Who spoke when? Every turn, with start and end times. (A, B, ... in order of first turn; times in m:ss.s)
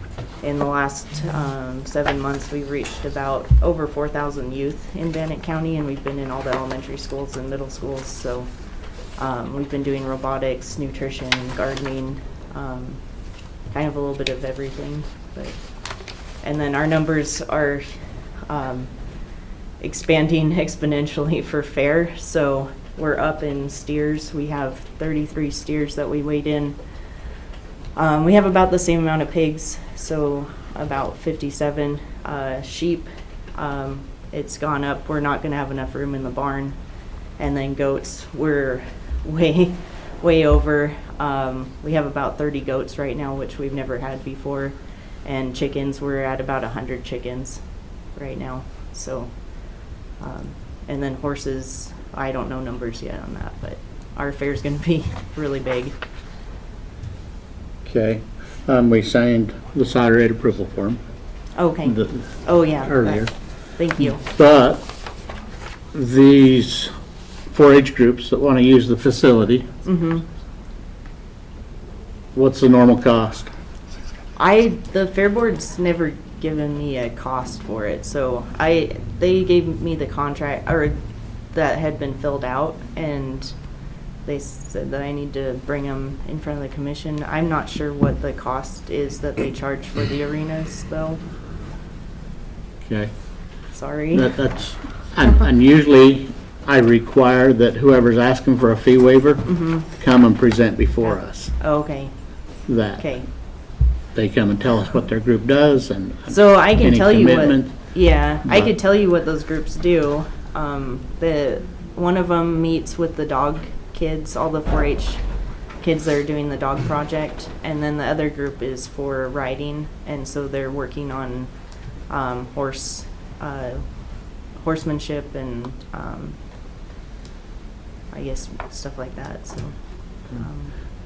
0:00.4-0:08.5 A
0:09.2-0:13.0 A
0:13.7-0:15.6 A
0:16.4-0:18.0 A
0:18.5-0:18.9 A
0:19.8-0:26.8 A
0:27.9-0:36.8 A
0:37.4-0:47.6 A
0:48.2-0:49.3 A
0:50.2-0:55.9 A
0:57.8-1:01.0 B
1:01.6-1:04.2 A
1:01.8-1:02.3 B
1:02.8-1:03.3 B
1:04.1-1:04.8 B
1:05.9-1:06.9 B
1:07.5-1:09.8 B
1:09.8-1:10.2 A
1:12.3-1:13.5 B
1:14.4-1:21.0 A
1:21.5-1:23.5 A
1:24.2-1:31.2 A
1:32.8-1:33.1 B
1:33.7-1:34.4 A
1:34.1-1:41.5 B
1:39.5-1:39.8 A
1:41.0-1:42.1 A
1:42.7-1:43.0 B
1:43.0-1:43.3 A
1:44.1-1:47.7 B
1:46.3-1:55.2 A
1:48.4-1:48.7 B
1:55.8-2:01.5 A
2:02.1-2:03.8 A
2:04.6-2:06.4 A
2:08.1-2:09.7 A
2:10.3-2:10.7 A